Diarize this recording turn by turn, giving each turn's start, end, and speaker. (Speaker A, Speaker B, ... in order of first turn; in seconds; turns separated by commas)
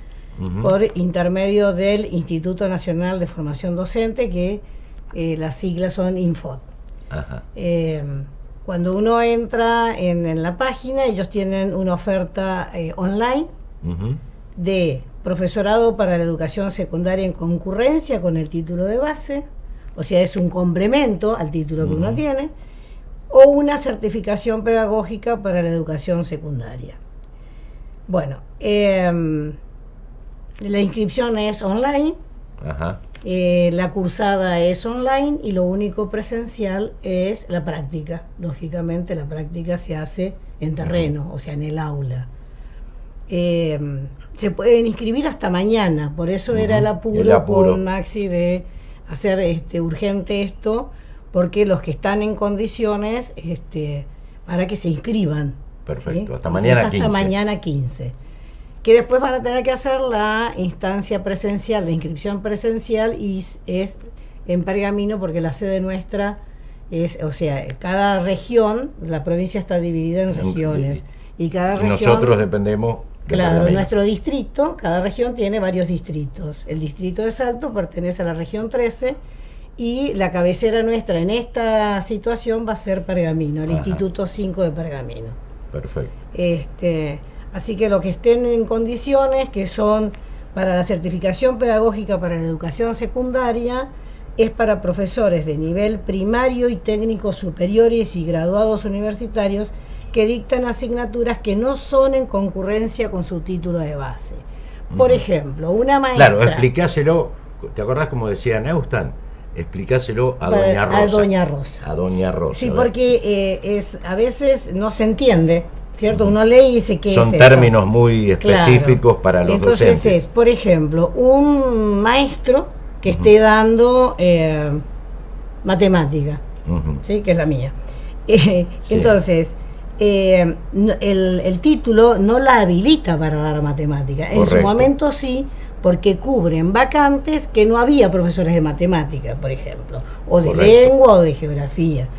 Speaker A: 0.4-0.7, Speaker B: 0.6-6.7, Speaker A: 7.1-7.5, Speaker B: 7.5-13.5, Speaker A: 13.8-14.2, Speaker B: 14.6-22.5, Speaker A: 21.8-22.2, Speaker B: 23.3-27.0, Speaker B: 28.1-29.6, Speaker B: 30.6-32.2, Speaker A: 32.6-33.0, Speaker B: 33.2-42.3, Speaker B: 43.3-58.1, Speaker A: 46.5-47.8, Speaker A: 55.9-57.3, Speaker B: 58.8-72.4, Speaker A: 70.3-71.0, Speaker A: 71.7-73.9, Speaker B: 73.3-79.2, Speaker B: 79.8-85.4, Speaker A: 83.7-84.0, Speaker A: 85.7-86.1, Speaker B: 86.3-106.7, Speaker A: 104.9-105.2, Speaker A: 106.2-111.3, Speaker B: 110.4-111.8, Speaker A: 111.8-112.9, Speaker B: 112.5-117.7, Speaker A: 117.1-120.2, Speaker B: 118.4-124.8, Speaker B: 125.6-126.4, Speaker A: 126.7-127.0, Speaker B: 127.0-127.7, Speaker B: 128.3-142.1, Speaker A: 128.9-129.2, Speaker A: 134.3-134.9, Speaker A: 140.4-140.9